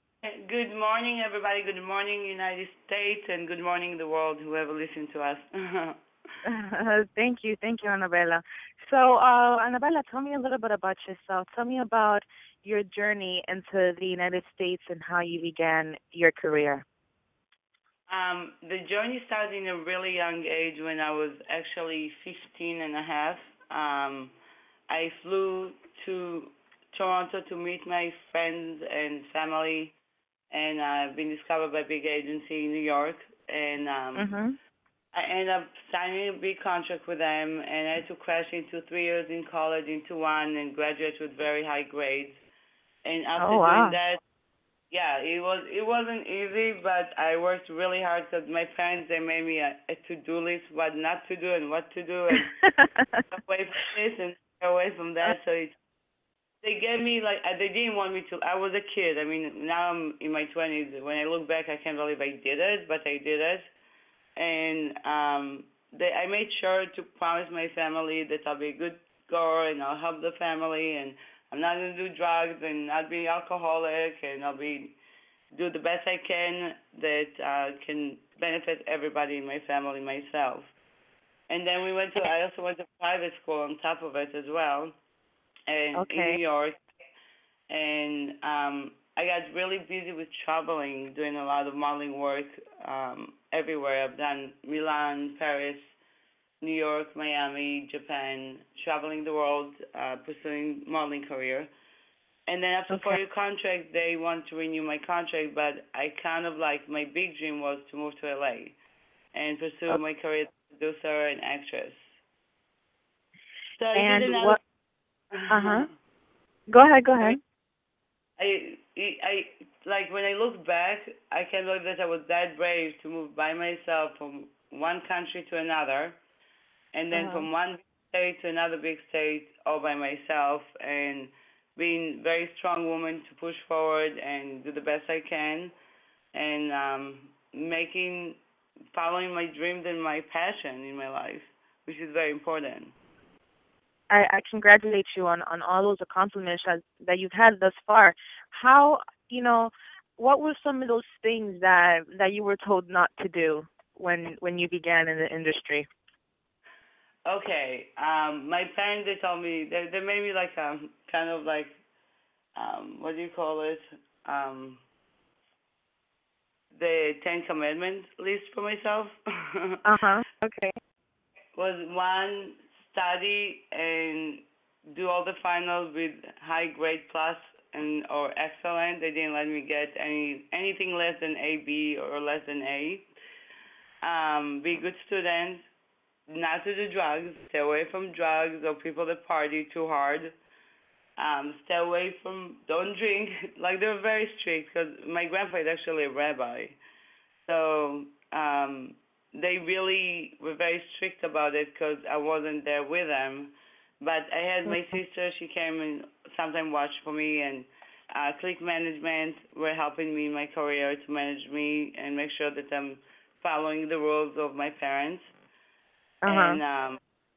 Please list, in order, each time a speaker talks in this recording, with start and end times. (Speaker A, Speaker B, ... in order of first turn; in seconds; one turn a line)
Speaker A: 0.2-6.0
Speaker B: 6.5-16.8
Speaker A: 18.1-24.3
Speaker A: 24.9-29.9
Speaker A: 30.5-34.3
Speaker B: 34.2-34.5
Speaker A: 35.1-42.4
Speaker A: 43.0-44.2
Speaker B: 43.4-44.0
Speaker A: 44.9-52.5
Speaker B: 52.6-53.2
Speaker A: 53.3-55.7
Speaker A: 56.6-63.7
Speaker A: 64.4-75.0
Speaker A: 75.5-80.7
Speaker A: 81.5-85.0
Speaker A: 85.7-86.8
Speaker B: 86.0-86.4
Speaker A: 87.7-95.9
Speaker A: 96.6-101.7
Speaker A: 102.5-108.8
Speaker B: 102.9-103.2
Speaker A: 109.3-112.1
Speaker A: 113.8-114.6
Speaker B: 114.0-114.6
Speaker A: 115.3-115.9
Speaker B: 115.5-115.9
Speaker B: 116.7-117.4
Speaker A: 118.4-126.2
Speaker A: 126.9-135.7
Speaker B: 127.1-127.5
Speaker A: 136.3-138.4
Speaker A: 138.9-142.9
Speaker B: 144.1-155.9
Speaker A: 157.3-161.8
Speaker A: 162.6-164.8
Speaker A: 166.7-169.8
Speaker B: 169.8-170.8
Speaker A: 171.6-183.1
Speaker A: 184.0-185.7
Speaker A: 186.3-190.3
Speaker A: 191.2-196.8
Speaker A: 197.4-215.3
Speaker B: 216.2-216.6
Speaker A: 216.3-217.0